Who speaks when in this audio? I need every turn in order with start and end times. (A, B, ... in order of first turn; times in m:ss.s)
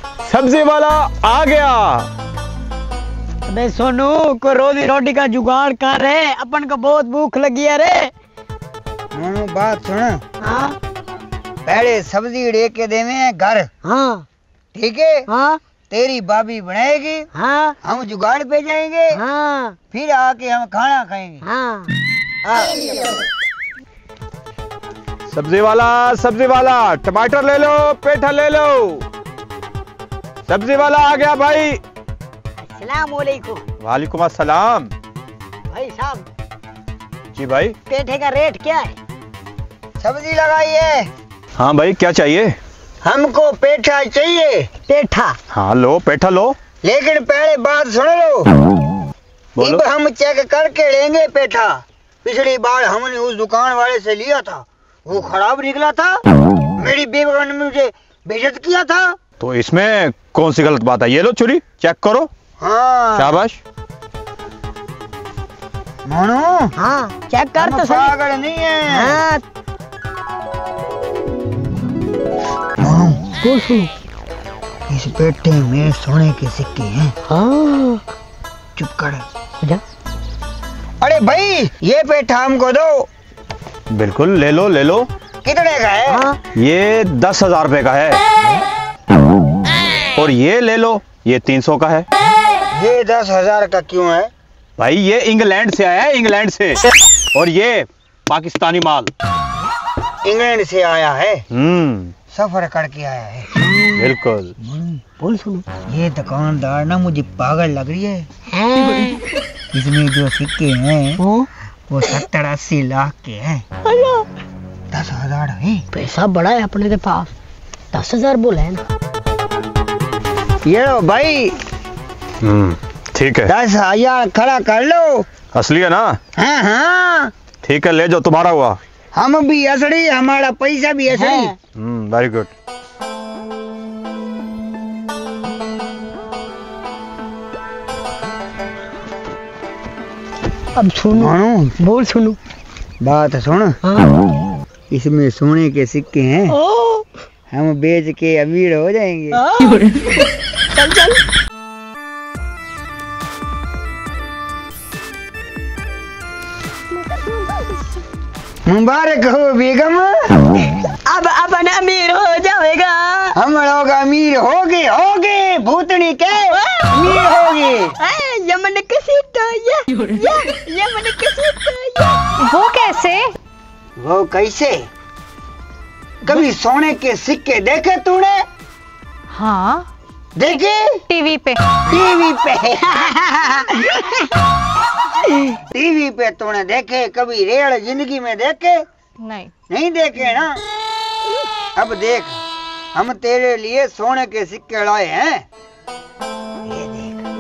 0:00.2-0:02.0 A
0:03.5-0:08.1 B
0:09.1-0:10.2 C
0:10.4-0:10.8 B
0:11.6-0:13.7 C
0:13.8-0:14.3 B
0:14.7-0:15.2 C
0:15.3-0:15.6 B
0:15.9-0:17.3 C
0:17.3-0:17.8 B
0:17.8-0:19.2 C
0:19.2-0:19.8 B
0:19.9-0:21.4 C
0:21.4-0:21.9 B
0:25.3-0:29.0 A
0:30.5-0:31.8 A
0:32.6-0:33.6 B
0:33.8-0:34.9 A
0:35.7-0:36.3 B
0:37.4-0:37.8 A
0:37.9-0:39.0 B
0:40.0-0:41.1 C
0:41.6-0:42.6 A
0:43.0-0:44.7 C
0:44.9-0:45.4 B
0:45.5-0:46.6 A
0:46.8-0:48.5 C
0:49.6-0:49.8 A
0:49.6-0:56.2 C
0:56.8-0:59.2 C
0:59.4-1:02.3 A
1:02.6-1:03.4 C
1:03.2-1:03.6 A
1:06.1-1:06.7 C
1:06.8-1:08.1 B
1:07.6-1:09.2 C
1:08.9-1:09.4 B
1:12.8-1:13.2 C
1:13.4-1:13.9 B
1:14.9-1:17.2 C
1:17.3-1:18.0 B
1:18.8-1:19.2 C
1:21.0-1:23.1 C
1:23.9-1:25.1 A
1:25.4-1:26.2 C
1:26.1-1:26.4 B
1:26.6-1:28.2 A
1:30.2-1:32.1 A
1:32.8-1:34.3 C
1:34.8-1:36.8 A
1:37.4-1:39.1 A
1:40.2-1:41.4 C
1:41.5-1:42.1 A
1:42.3-1:43.5 C
1:43.7-1:44.0 B
1:44.0-1:44.5 A
1:44.6-1:45.0 C
1:45.2-1:45.7 B
1:45.9-1:48.2 C
1:48.5-1:49.2 B
1:49.7-1:51.2 C
1:51.2-1:51.5 B
1:51.9-1:53.6 C
1:53.8-1:54.3 B
1:54.9-1:55.8 C
1:55.9-1:57.3 B
1:57.9-1:58.8 B
2:00.7-2:01.6 C
2:02.4-2:03.5 A
2:03.5-2:05.3 C
2:05.5-2:06.2 A
2:06.4-2:07.3 C
2:07.6-2:08.8 A
2:09.2-2:11.5 C
2:11.1-2:11.5 B
2:11.8-2:12.5 A
2:20.8-2:22.4 B
2:21.1-2:21.8 C
2:23.0-2:23.8 C
2:23.8-2:24.1 B
2:24.9-2:26.6 C
2:26.5-2:27.1 B
2:27.5-2:29.4 C
2:29.4-2:30.0 B
2:30.8-2:31.2 B
2:38.7-2:40.3 C
2:41.1-2:43.4 B
2:43.4-2:47.9 C
2:46.5-2:46.9 B
2:48.0-2:52.2 B
2:52.4-2:53.3 D
2:54.0-2:54.9 C
2:56.2-2:58.4 C
2:59.3-2:59.9 D
3:00.4-3:01.0 C
3:00.5-3:01.6 D
3:01.9-3:04.2 C
3:05.5-3:08.8 C
3:09.2-3:09.5 D
3:09.7-3:10.6 C
3:11.8-3:12.4 C
3:13.0-3:15.4 C
3:16.7-3:17.2 C